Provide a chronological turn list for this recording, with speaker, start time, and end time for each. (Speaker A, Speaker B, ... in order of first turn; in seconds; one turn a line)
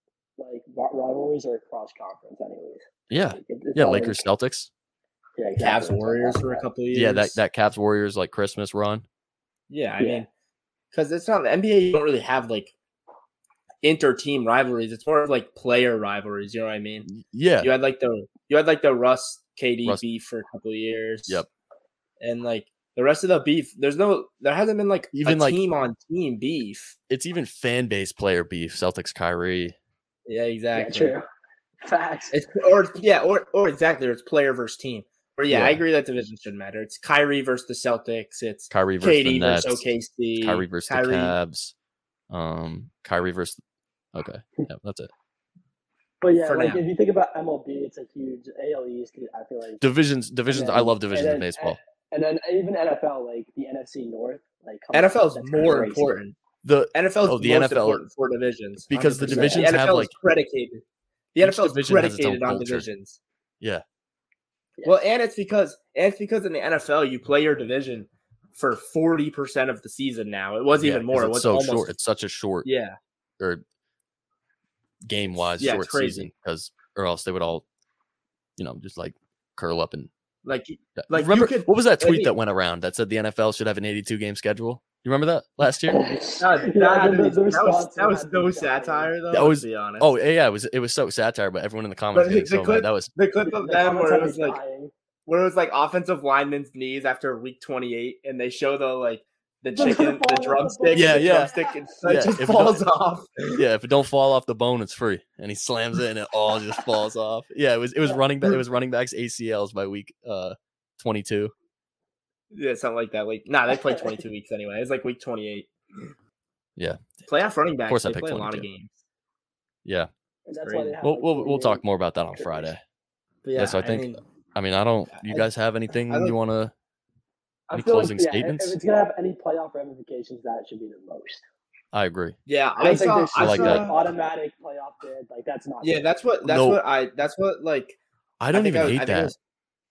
Speaker A: 0.4-4.2
Speaker B: 3.1-4.7
Speaker A: 5.4-6.6
Speaker C: 5.6-7.4
Speaker B: 6.9-9.0
Speaker C: 9.7-10.3
Speaker A: 10.0-10.2
Speaker C: 10.9-12.7
Speaker C: 13.8-17.1
Speaker B: 17.1-17.7
Speaker C: 17.6-21.4
Speaker C: 22.2-26.9
Speaker B: 25.1-25.6
Speaker B: 27.1-29.7
Speaker C: 30.2-31.1
Speaker A: 30.7-31.2
Speaker A: 31.8-32.4
Speaker C: 32.3-41.3
Speaker B: 35.5-35.8
Speaker B: 38.7-39.8
Speaker B: 40.4-41.7
Speaker B: 42.3-43.6
Speaker B: 44.1-45.1
Speaker A: 46.2-49.8
Speaker C: 46.4-46.8
Speaker B: 49.8-51.8
Speaker A: 50.5-56.1
Speaker C: 54.9-56.4
Speaker B: 56.6-58.0
Speaker C: 56.9-60.8
Speaker B: 58.9-60.1
Speaker A: 59.2-59.8
Speaker C: 61.3-63.2
Speaker B: 61.4-62.9
Speaker C: 64.8-71.9
Speaker B: 70.8-72.7
Speaker C: 72.6-73.0
Speaker B: 75.0-77.6
Speaker C: 75.6-76.3
Speaker B: 78.6-80.1
Speaker C: 80.4-82.3
Speaker B: 81.0-86.0
Speaker A: 85.9-89.1
Speaker C: 86.4-90.1
Speaker B: 89.3-93.1
Speaker C: 92.1-94.6
Speaker A: 93.4-94.9
Speaker C: 95.2-103.6
Speaker A: 99.8-101.8
Speaker B: 100.9-101.5
Speaker B: 102.0-102.8
Speaker B: 103.5-111.5
Speaker C: 112.5-116.1
Speaker C: 117.3-119.0
Speaker B: 117.9-118.7
Speaker A: 120.5-121.8
Speaker C: 120.6-121.0
Speaker B: 121.0-122.8
Speaker A: 122.3-122.7
Speaker C: 123.4-124.2
Speaker B: 123.6-126.7
Speaker C: 125.2-125.5
Speaker C: 126.1-126.3
Speaker A: 127.7-131.4
Speaker B: 127.7-128.8
Speaker B: 131.9-132.3
Speaker C: 132.5-134.0
Speaker A: 132.8-136.0
Speaker B: 133.4-133.8
Speaker C: 135.8-138.0
Speaker B: 136.4-136.8
Speaker B: 138.4-139.3
Speaker C: 138.5-139.3